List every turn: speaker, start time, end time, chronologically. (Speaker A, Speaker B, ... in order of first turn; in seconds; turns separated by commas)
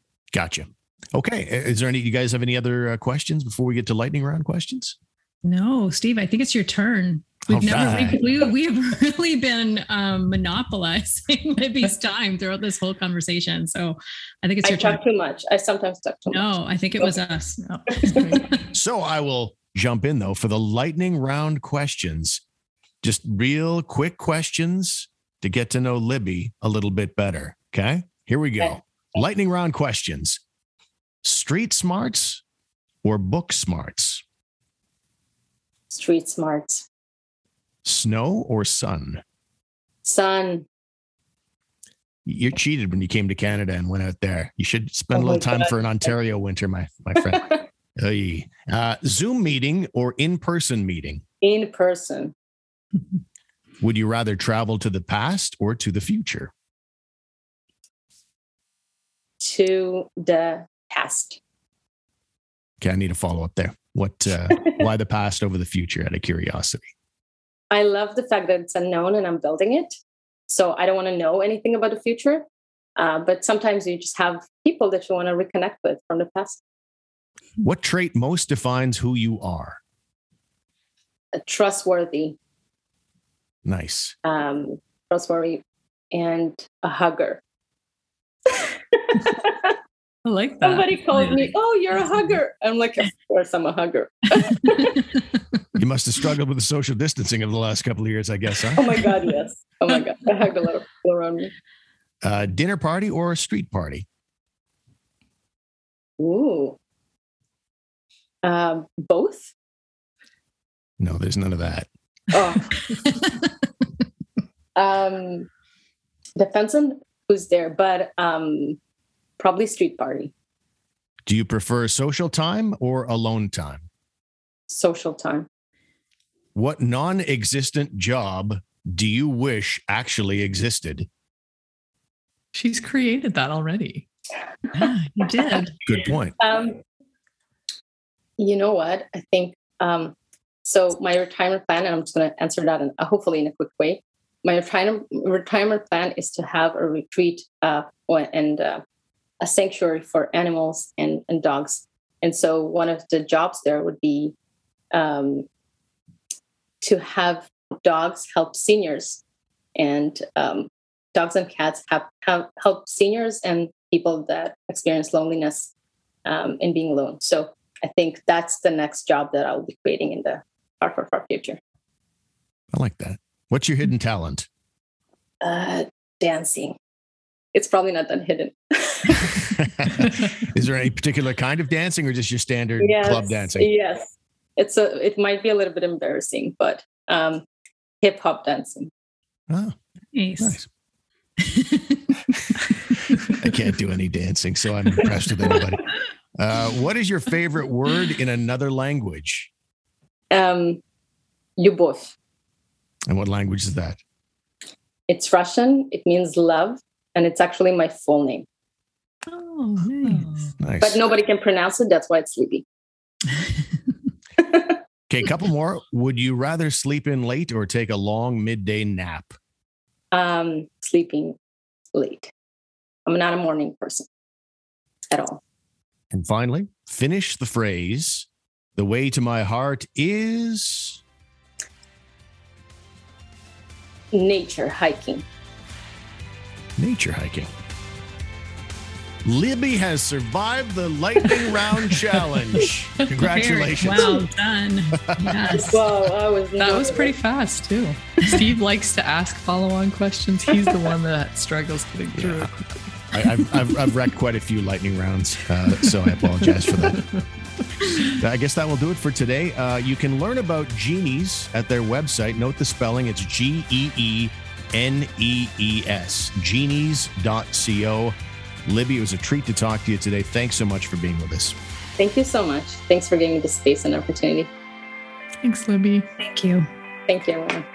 Speaker A: 0.3-5.0, Speaker B: 5.4-15.0, Speaker A: 7.5-8.2, Speaker C: 14.6-17.1, Speaker B: 16.3-18.6, Speaker D: 17.6-18.5, Speaker C: 18.0-18.2, Speaker A: 18.7-22.4, Speaker A: 23.0-30.4, Speaker A: 31.2-32.4, Speaker A: 33.0-34.2, Speaker C: 35.9-36.9, Speaker A: 37.8-39.2, Speaker C: 40.0-40.7, Speaker A: 42.3-51.2, Speaker C: 45.1-45.7, Speaker C: 51.4-52.3, Speaker A: 53.8-56.5, Speaker C: 59.4-61.4, Speaker A: 62.8-66.8, Speaker C: 67.7-70.0, Speaker C: 70.5-72.5, Speaker C: 73.0-76.6, Speaker A: 77.6-79.8, Speaker C: 81.3-82.4, Speaker A: 83.6-84.1, Speaker C: 84.2-87.4, Speaker C: 88.5-89.7, Speaker D: 90.2-91.3, Speaker C: 90.6-95.1, Speaker A: 95.7-99.1, Speaker C: 98.7-101.5, Speaker A: 102.2-104.0, Speaker C: 106.2-106.8, Speaker C: 108.4-109.5, Speaker A: 111.0-111.9, Speaker C: 112.3-112.8, Speaker C: 114.8-115.5, Speaker C: 116.4-118.8, Speaker C: 119.4-120.3, Speaker A: 121.3-123.9, Speaker C: 124.7-125.5, Speaker A: 126.5-131.1, Speaker D: 132.5-134.1, Speaker B: 134.7-135.7, Speaker A: 135.8-136.4, Speaker C: 136.4-136.8, Speaker C: 138.4-148.8, Speaker C: 149.4-154.3, Speaker C: 154.9-155.4, Speaker C: 156.8-159.2, Speaker C: 159.7-165.7, Speaker C: 166.2-171.6, Speaker A: 172.7-174.5, Speaker C: 175.4-176.8, Speaker C: 177.5-179.5, Speaker A: 179.6-183.7, Speaker C: 182.8-187.4, Speaker C: 188.0-188.9, Speaker A: 189.5-189.8, Speaker B: 190.1-190.6, Speaker A: 190.4-190.7, Speaker B: 191.4-192.0, Speaker A: 193.3-199.5, Speaker C: 200.3-200.8, Speaker C: 201.6-202.2, Speaker A: 203.1-204.0, Speaker C: 205.1-208.4, Speaker B: 209.3-210.5, Speaker D: 209.9-210.6, Speaker A: 210.6-211.0, Speaker C: 210.8-212.7, Speaker C: 214.4-214.8, Speaker A: 215.1-219.3, Speaker C: 220.1-221.4, Speaker C: 221.9-222.3, Speaker C: 223.1-224.1, Speaker C: 225.1-225.4, Speaker A: 226.1-231.0, Speaker C: 234.1-235.2, Speaker A: 236.8-237.5, Speaker A: 239.2-244.2, Speaker D: 241.9-242.4, Speaker D: 243.0-244.1, Speaker B: 243.2-245.8, Speaker A: 245.1-245.4, Speaker C: 245.5-247.1, Speaker D: 246.6-252.9, Speaker A: 252.1-252.5, Speaker A: 253.1-257.1, Speaker D: 256.9-257.2, Speaker A: 258.1-268.1, Speaker A: 268.6-271.6, Speaker C: 272.0-274.5, Speaker D: 275.4-276.1, Speaker B: 276.2-276.7, Speaker C: 277.1-277.7